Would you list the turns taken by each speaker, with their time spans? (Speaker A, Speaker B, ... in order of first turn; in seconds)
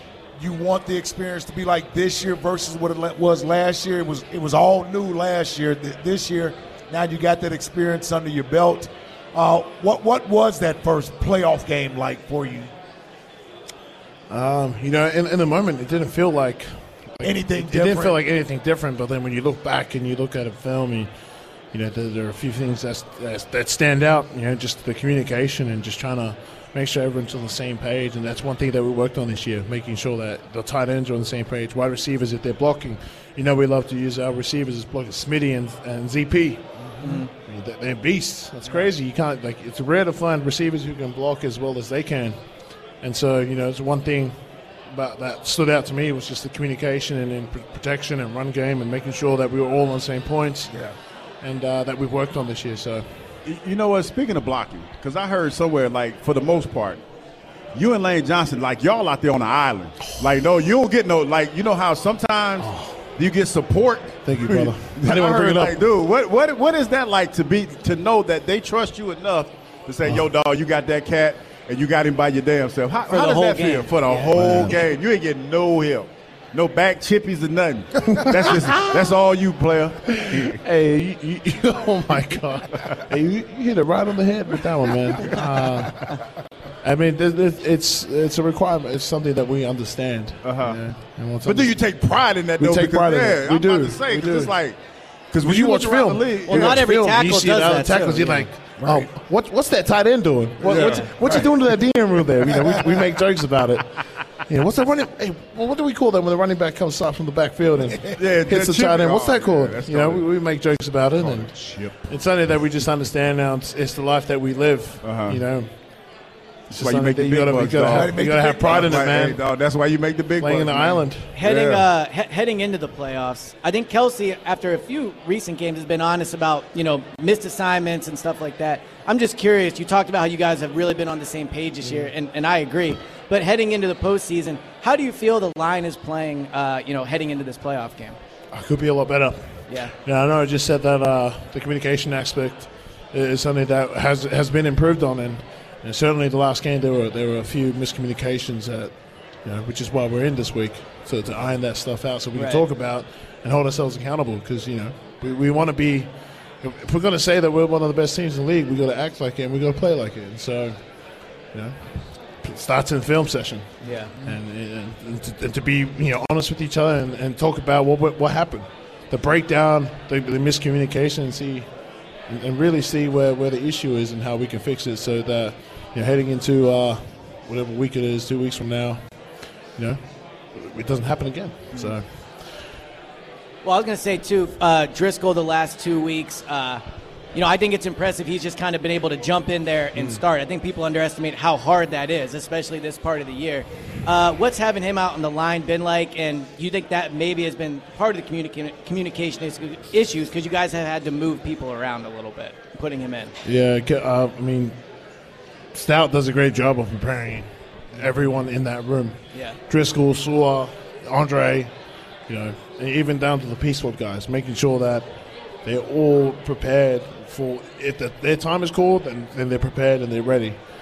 Speaker A: 0.4-12.7, 17.2-18.2, 98.8-99.1, 117.9-119.2
Speaker B: 14.3-21.1, 21.7-36.6, 37.2-42.4, 43.0-44.4, 44.9-50.7, 51.4-53.0, 62.6-63.0, 64.2-65.8, 74.3-74.8, 78.1-78.9, 80.1-86.1, 86.8-91.8, 92.6-94.5, 95.4-111.5, 112.1-115.7, 116.7-119.4, 120.4-121.3, 138.5-148.9, 149.4-160.8, 161.5-171.7, 172.3-179.0, 180.5-182.1, 203.4-204.8, 205.7-209.2, 209.7-211.7, 212.3-215.1, 215.7-220.6
Speaker C: 37.0-37.3, 73.1-74.4, 96.5-98.5, 100.7-101.1, 121.3-138.2, 139.7-139.9, 152.3-152.7, 163.8-164.2, 183.6-186.8, 187.3-203.3, 209.3-209.6
Speaker D: 53.5-57.0, 57.7-80.6, 90.4-90.8, 91.4-94.8, 95.3-96.9, 100.6-101.5, 108.2-110.3, 111.2-112.0, 115.0-115.4, 116.7-121.9